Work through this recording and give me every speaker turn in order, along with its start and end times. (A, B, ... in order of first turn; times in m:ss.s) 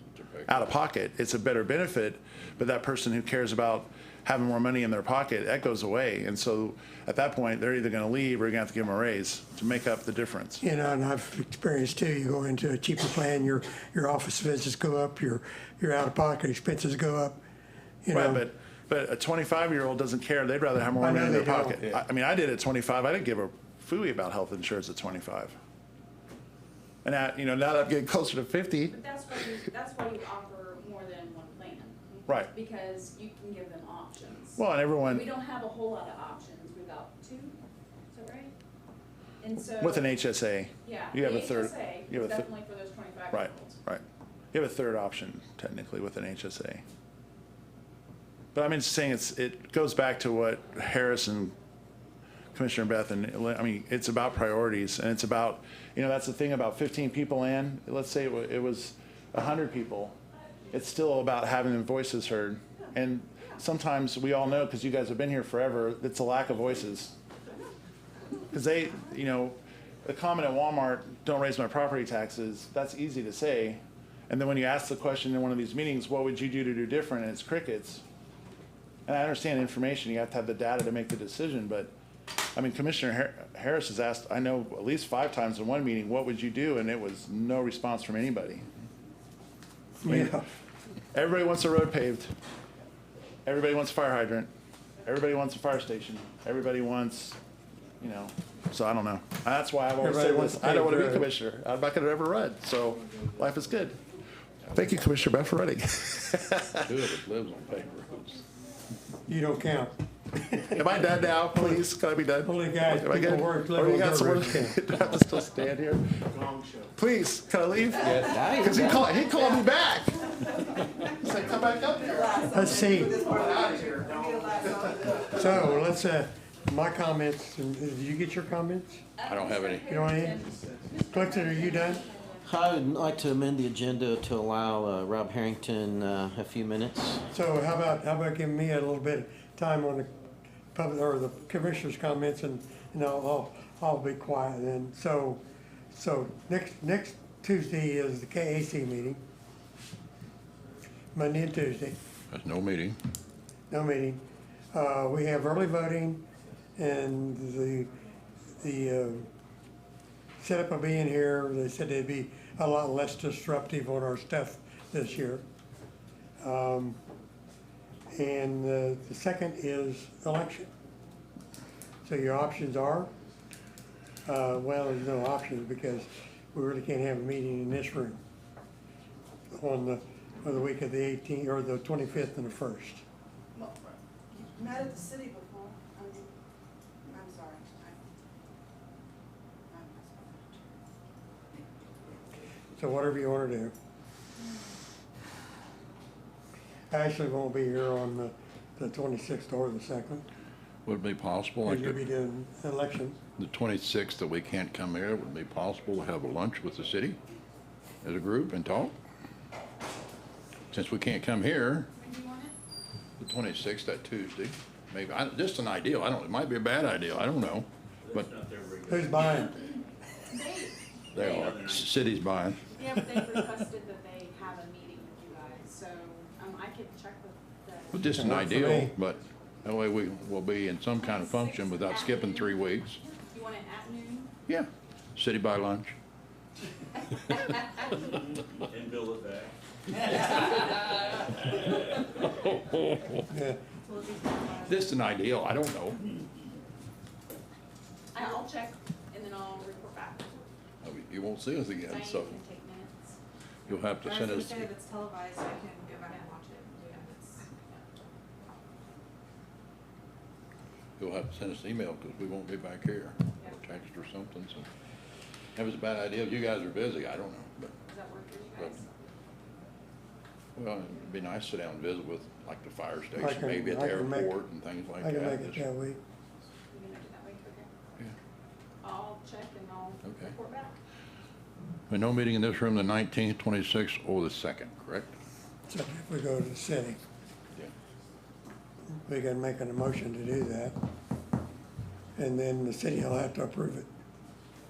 0:00.1-0:00.6 A
0:00.5-0:10.6 B
0:10.6-0:17.4 C
0:18.0-0:18.4 C
0:18.1-0:25.6 B
0:21.0-0:21.8 C
0:27.0-0:28.9 B
0:28.9-0:37.6 D
0:34.6-0:35.2 B
0:38.1-0:38.5 D
0:39.4-0:40.1 D
0:39.8-0:42.5 B
0:40.8-0:43.8 D
0:43.3-0:46.8 B
0:48.5-0:51.5 B
0:52.5-1:00.2 B
1:00.7-1:07.1 B
1:08.5-1:18.0 B
1:19.1-1:21.9 B
1:22.5-1:28.7 B
1:30.0-1:30.4 C
1:30.0-1:30.4 B
1:31.1-1:32.3 B
1:33.4-1:34.5 B
1:35.0-1:37.4 B
1:38.0-1:44.0 B
1:40.0-1:41.3 C
1:44.7-1:46.9 B
1:46.8-1:48.4 A
1:49.3-1:50.8 C
1:50.7-1:56.2 B
1:51.5-1:51.8 C
1:52.4-1:54.8 C
1:56.8-2:00.3 B
1:58.0-1:59.1 E
2:01.0-2:04.1 B
2:02.5-2:03.4 C
2:04.6-2:05.2 B
2:05.3-2:09.0 C
2:09.2-2:12.8 D
2:09.2-2:09.9 A
2:09.9-2:10.4 C
2:11.1-2:12.0 C
2:12.5-2:17.2 E
2:17.3-2:20.1 C
2:20.7-2:25.4 C
2:25.9-2:29.2 C
2:31.1-2:32.0 C
2:32.3-2:33.0 A
2:33.7-2:34.2 C
2:34.7-2:36.2 C
2:36.8-2:37.9 C
2:38.6-2:39.3 C
2:40.4-2:45.4 C
2:46.4-2:47.0 C
2:48.1-2:50.7 C
2:52.0-2:53.1 C
2:54.2-2:58.2 C
2:59.5-3:03.0 C
3:12.7-3:13.7 C
3:16.9-3:20.2 C
3:20.8-3:22.0 A
3:21.6-3:23.2 C
3:23.4-3:27.2 A
3:28.0-3:29.0 A
3:30.7-3:31.9 A
3:32.0-3:32.6 D
3:33.2-3:38.3 A
3:38.0-3:39.5 F
3:38.9-3:39.5 C
3:40.3-3:41.2 D
3:41.1-3:42.6 A
3:41.1-3:42.0 F
3:42.7-3:48.0 D
3:47.9-3:53.0 A
3:48.1-3:48.9 C
3:51.0-3:54.3 D
3:54.5-3:56.0 A
3:58.6-3:59.5 F
4:00.1-4:00.4 F
4:02.3-4:03.2 A
4:03.3-4:03.6 C
4:03.9-4:04.9 G
4:04.6-4:06.1 A
4:08.1-4:10.4 D
4:10.8-4:12.4 A
4:11.8-4:13.2 D
4:13.7-4:14.7 A
4:14.0-4:17.4 G
4:16.9-4:17.8 D
4:21.0-4:24.7 A
4:25.5-4:27.7 A
4:27.9-4:28.9 D
4:30.6-4:35.6 A
4:33.2-4:34.3 C
4:35.0-4:36.0 C
4:36.7-4:37.7 D
4:38.8-4:40.8 D
4:40.0-4:40.3 A
4:41.9-4:45.1 A
4:45.7-4:47.0 C
4:48.9-4:50.7 C
4:52.2-4:53.9 C